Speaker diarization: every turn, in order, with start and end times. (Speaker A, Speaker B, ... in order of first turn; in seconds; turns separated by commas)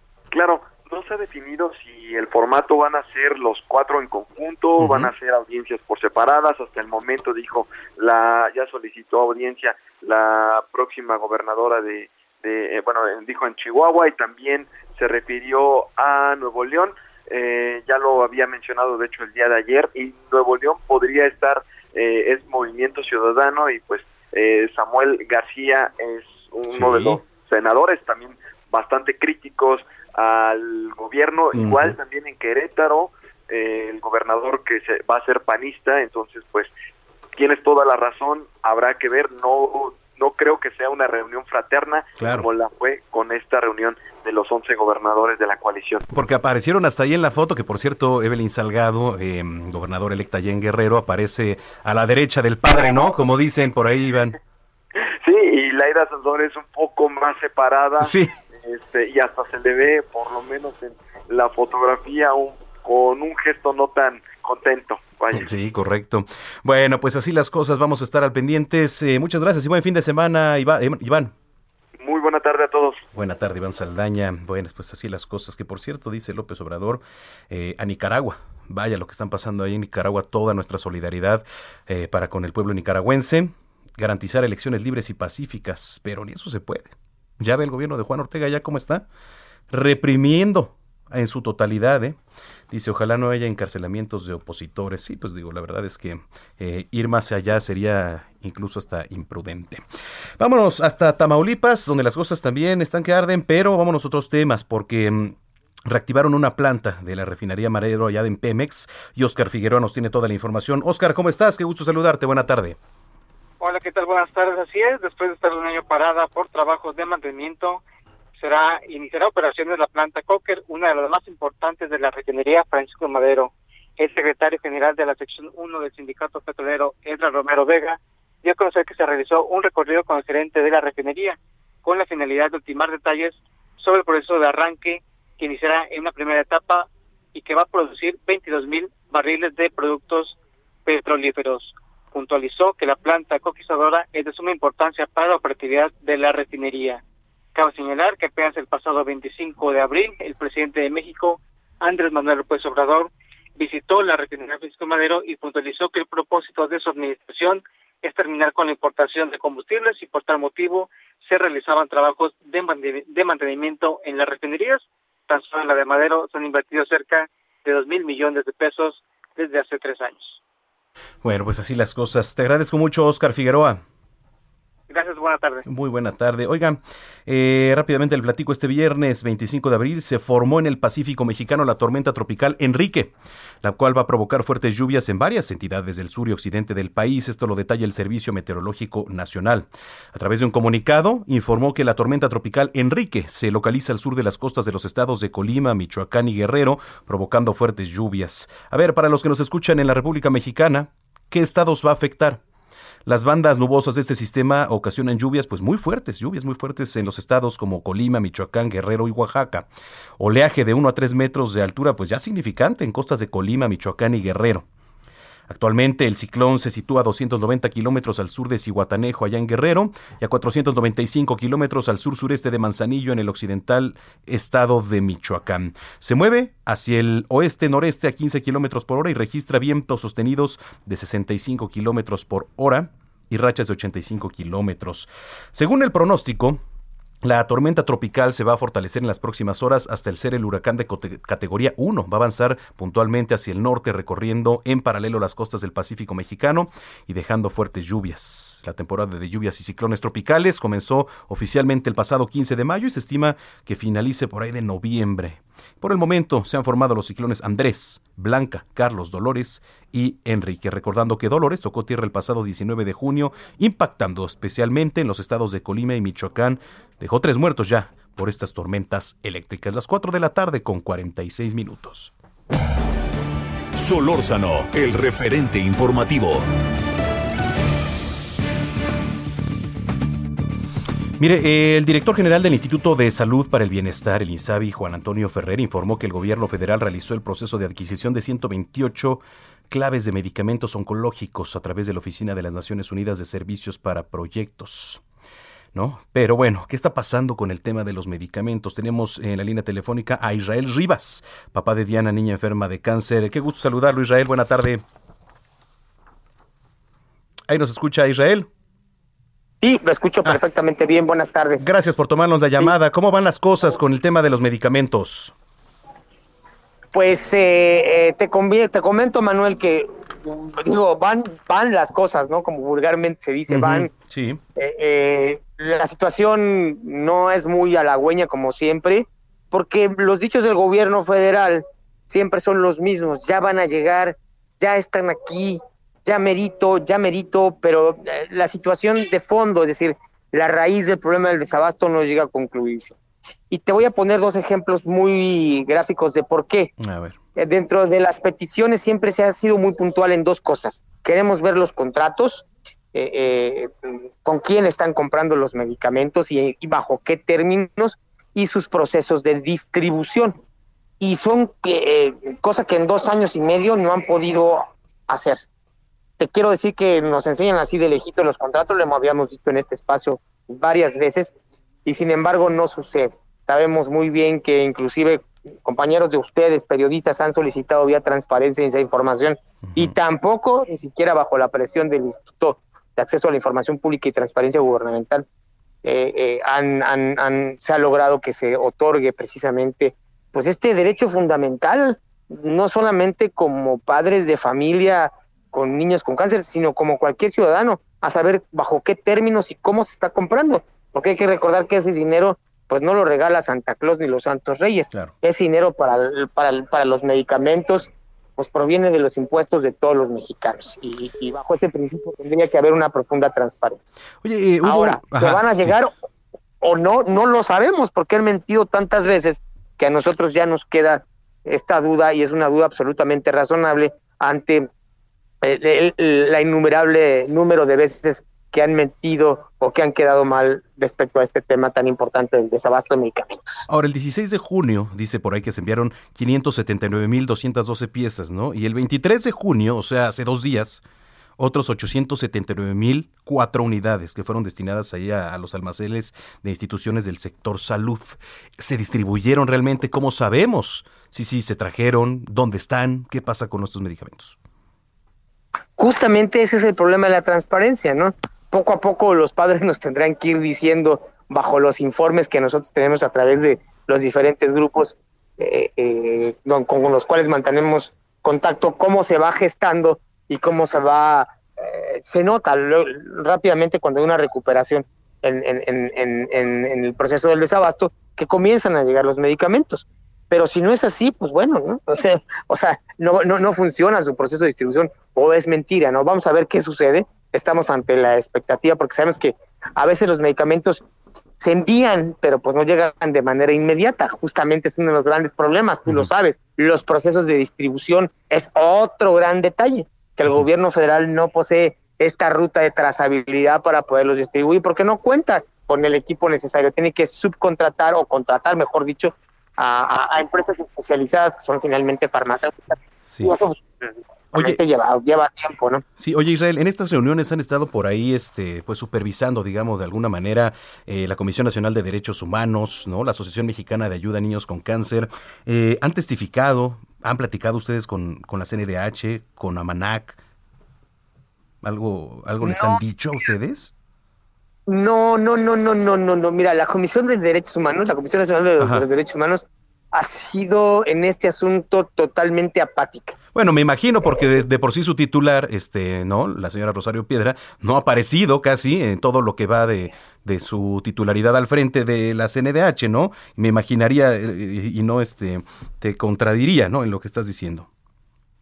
Speaker A: 0.3-36.7, Speaker B: 4.8-5.1, Speaker B: 26.7-27.2, Speaker B: 31.5-32.0, Speaker A: 37.3-46.0, Speaker B: 42.2-42.5, Speaker B: 46.1-54.4, Speaker A: 55.2-65.5, Speaker B: 58.0-58.3, Speaker B: 65.3-71.3, Speaker A: 72.0-73.0, Speaker B: 73.1-89.0, Speaker B: 89.7-92.2, Speaker B: 92.7-99.8, Speaker B: 100.4-112.8, Speaker C: 113.6-117.8, Speaker C: 118.4-147.0, Speaker C: 147.5-170.4, Speaker B: 171.2-173.8, Speaker C: 174.9-175.6, Speaker B: 175.6-202.4, Speaker B: 203.0-214.7, Speaker B: 215.5-236.6, Speaker B: 237.2-272.1, Speaker D: 273.7-276.5, Speaker B: 281.2-295.0, Speaker B: 295.7-304.8, Speaker B: 307.5-308.5, Speaker E: 309.6-311.7, Speaker B: 311.6-315.3, Speaker E: 316.9-323.9, Speaker B: 323.5-324.4, Speaker E: 324.6-342.9, Speaker E: 343.5-346.7, Speaker B: 346.8-347.2, Speaker E: 347.4-360.4, Speaker E: 361.0-365.4, Speaker E: 366.2-371.3, Speaker E: 371.9-385.2, Speaker B: 379.7-380.0, Speaker E: 385.8-413.9, Speaker B: 414.2-415.9, Speaker E: 414.6-415.9, Speaker E: 416.6-424.7, Speaker E: 425.4-433.6, Speaker B: 433.7-440.8, Speaker B: 441.4-454.4, Speaker E: 455.8-490.8, Speaker E: 491.4-515.8, Speaker B: 513.1-513.4, Speaker B: 514.3-514.6, Speaker B: 516.0-530.2, Speaker B: 531.6-533.7, Speaker E: 532.4-532.8, Speaker E: 534.7-543.1, Speaker B: 538.6-538.9, Speaker B: 543.3-557.7